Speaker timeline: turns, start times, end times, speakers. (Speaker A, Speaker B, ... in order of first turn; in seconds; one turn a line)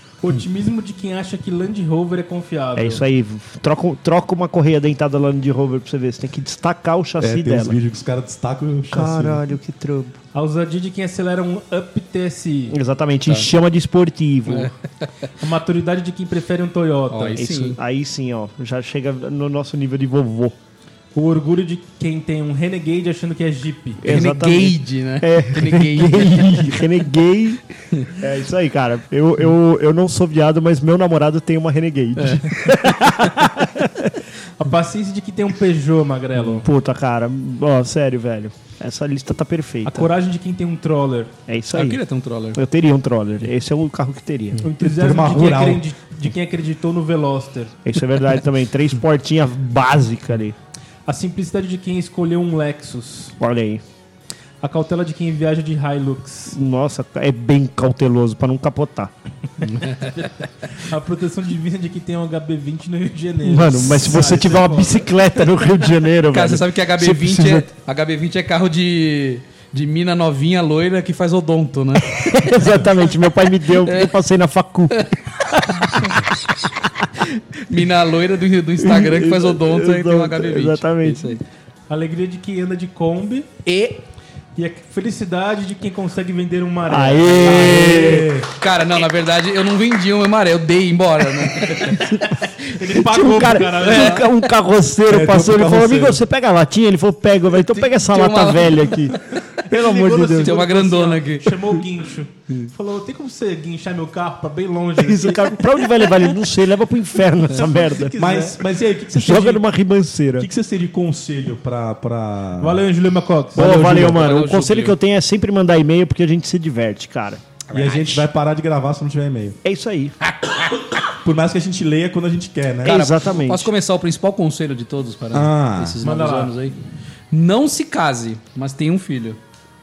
Speaker A: 0.2-3.0
Speaker B: 2.8-7.8
Speaker C: 7.2-9.4
Speaker B: 8.9-10.2
Speaker A: 10.3-12.8
Speaker B: 12.7-14.7
Speaker D: 14.5-15.3
Speaker A: 15.4-17.4
Speaker D: 17.1-17.8
Speaker B: 17.3-20.6
Speaker A: 21.1-24.0
Speaker B: 24.0-34.2
Speaker D: 24.1-26.8
Speaker D: 32.2-32.4
Speaker A: 34.6-36.7
Speaker B: 36.6-40.1
Speaker A: 39.9-41.3
Speaker B: 41.5-42.0
Speaker D: 41.7-42.6
Speaker B: 42.5-44.7
Speaker A: 44.6-47.8
Speaker C: 44.9-45.8
Speaker B: 47.9-50.6
Speaker A: 51.1-53.4
Speaker B: 53.4-53.8
Speaker A: 54.6-56.6
Speaker B: 56.5-59.1
Speaker D: 59.6-60.3
Speaker A: 60.1-65.2
Speaker B: 63.4-67.7
Speaker D: 66.3-72.8
Speaker B: 72.0-76.8
Speaker D: 73.7-74.1
Speaker D: 75.8-76.1
Speaker D: 77.2-81.4
Speaker B: 78.8-81.4
Speaker A: 81.9-83.5
Speaker D: 83.7-84.0
Speaker A: 84.6-87.9
Speaker B: 86.9-88.3
Speaker C: 87.5-88.5
Speaker D: 88.6-92.1
Speaker B: 91.8-100.7
Speaker A: 92.6-94.3
Speaker D: 93.8-94.2
Speaker C: 95.1-96.2
Speaker D: 97.7-99.0
Speaker A: 99.7-106.0
Speaker D: 100.4-101.6
Speaker B: 105.0-108.2
Speaker A: 107.6-108.7
Speaker C: 108.2-109.6
Speaker B: 109.1-110.5
Speaker C: 110.4-112.8
Speaker A: 112.6-113.9
Speaker B: 113.5-117.4
Speaker C: 113.6-114.2
Speaker D: 113.8-115.0
Speaker D: 117.7-118.3
Speaker C: 117.7-119.6
Speaker B: 119.6-120.2
Speaker D: 120.2-120.9
Speaker C: 121.2-123.0
Speaker B: 122.8-123.7
Speaker D: 122.8-126.8
Speaker C: 125.3-126.0
Speaker A: 126.0-126.6
Speaker D: 127.3-129.4